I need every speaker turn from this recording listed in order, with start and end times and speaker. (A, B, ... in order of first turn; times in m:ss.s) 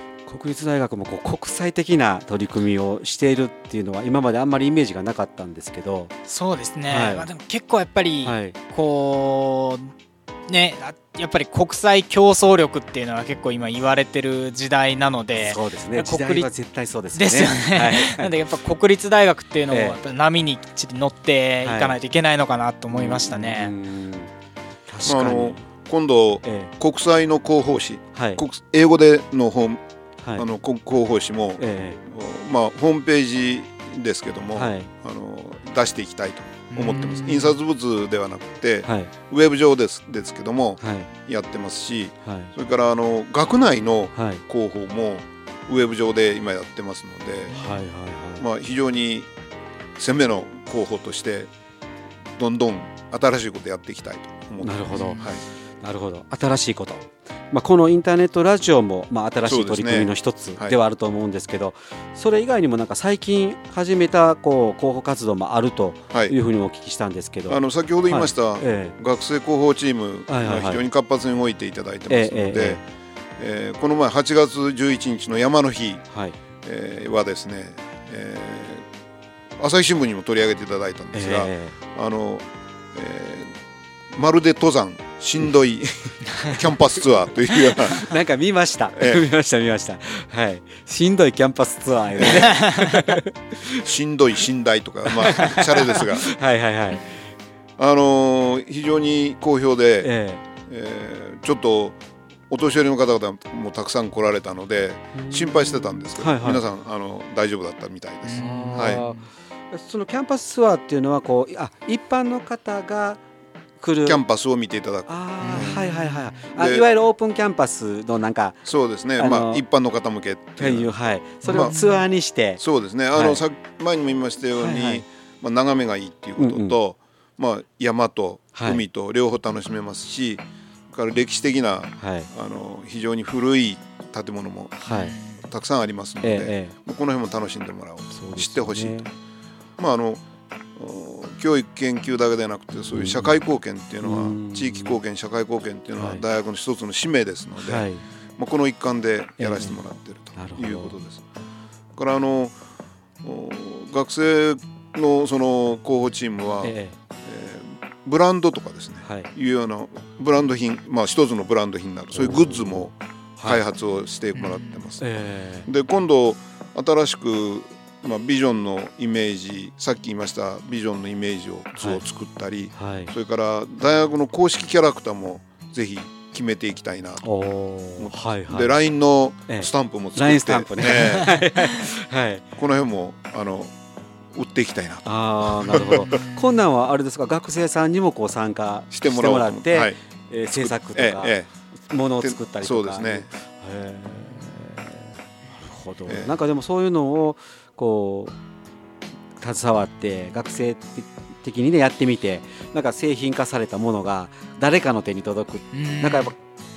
0:00.2-0:06.1 A
0:06.3-0:09.9 B
0:06.9-0:07.3 A
0:08.2-0:08.6 A
0:10.5-0:16.5 B
0:15.4-0:18.3 A
0:17.2-0:23.7 B
0:19.7-0:20.0 A
0:21.6-0:22.0 A
0:22.9-0:24.3 A
0:24.9-0:25.6 A
0:25.0-0:29.8 C
0:26.4-0:26.7 A
0:28.2-0:28.4 A
0:30.4-0:47.6 C
0:31.6-0:32.0 A
0:34.6-0:34.9 A
0:36.7-0:37.6 B
0:38.9-0:39.1 A
0:40.8-0:41.1 A
0:42.2-0:42.5 A
0:44.2-0:44.4 A
0:47.5-0:48.4 A
0:48.4-0:49.3 C
0:50.0-0:51.5 C
0:52.4-0:55.4 C
0:54.6-1:09.0 A
0:54.9-0:55.3 B
0:59.4-1:00.8 C
1:07.5-1:12.8 C
1:10.3-1:10.8 A
1:12.1-1:12.8 A
1:13.4-1:16.0 C
1:16.1-1:16.4 A
1:16.6-1:18.8 C
1:19.6-1:23.6 C
1:21.1-1:21.7 A
1:24.1-1:28.1 C
1:27.7-1:33.8 A
1:29.0-1:29.2 C
1:32.2-1:32.6 C
1:32.5-1:32.9 B
1:33.8-1:36.3 C
1:35.1-1:37.1 A
1:37.8-1:40.1 C
1:40.0-1:40.4 A
1:40.7-1:42.0 C
1:42.5-1:49.0 C
1:45.2-1:46.6 A
1:48.2-1:49.2 B
1:48.4-1:53.2 A
1:53.8-1:54.2 A
1:54.0-1:55.8 C
1:55.1-1:58.6 A
1:55.4-1:56.1 B
1:56.5-1:56.9 C
1:58.6-2:00.9 C
1:59.2-1:59.6 A
2:00.6-2:02.6 A
2:01.4-2:01.7 C
2:02.6-2:19.0 C
2:03.2-2:03.4 A
2:04.6-2:05.0 A
2:06.4-2:06.8 A
2:08.5-2:08.8 A
2:12.0-2:12.3 A
2:14.8-2:15.2 A
2:14.9-2:15.4 B
2:16.2-2:16.7 A
2:18.1-2:19.1 A
2:19.8-2:20.2 C
2:20.8-2:27.9 C
2:22.9-2:23.4 A
2:24.0-2:25.0 A
2:26.0-2:26.2 A
2:27.6-2:28.0 A
2:28.4-2:31.2 C
2:29.4-2:29.8 A
2:30.4-2:31.0 A
2:32.0-2:32.6 C
2:33.2-2:45.0 C
2:36.6-2:37.0 A
2:39.0-2:39.3 A
2:42.1-2:43.6 A
2:44.4-2:44.7 B
2:45.0-2:45.7 A
2:45.7-2:57.2 C
2:52.7-2:53.1 A
2:57.2-2:58.8 A
2:58.0-3:01.4 C
2:59.5-3:02.4 A
3:02.6-3:03.7 C
3:04.3-3:06.2 C
3:05.0-3:11.3 A
3:08.9-3:10.0 C
3:10.6-3:11.5 C
3:11.9-3:18.4 A
3:12.2-3:13.3 C
3:19.4-3:26.4 A
3:25.7-3:26.3 B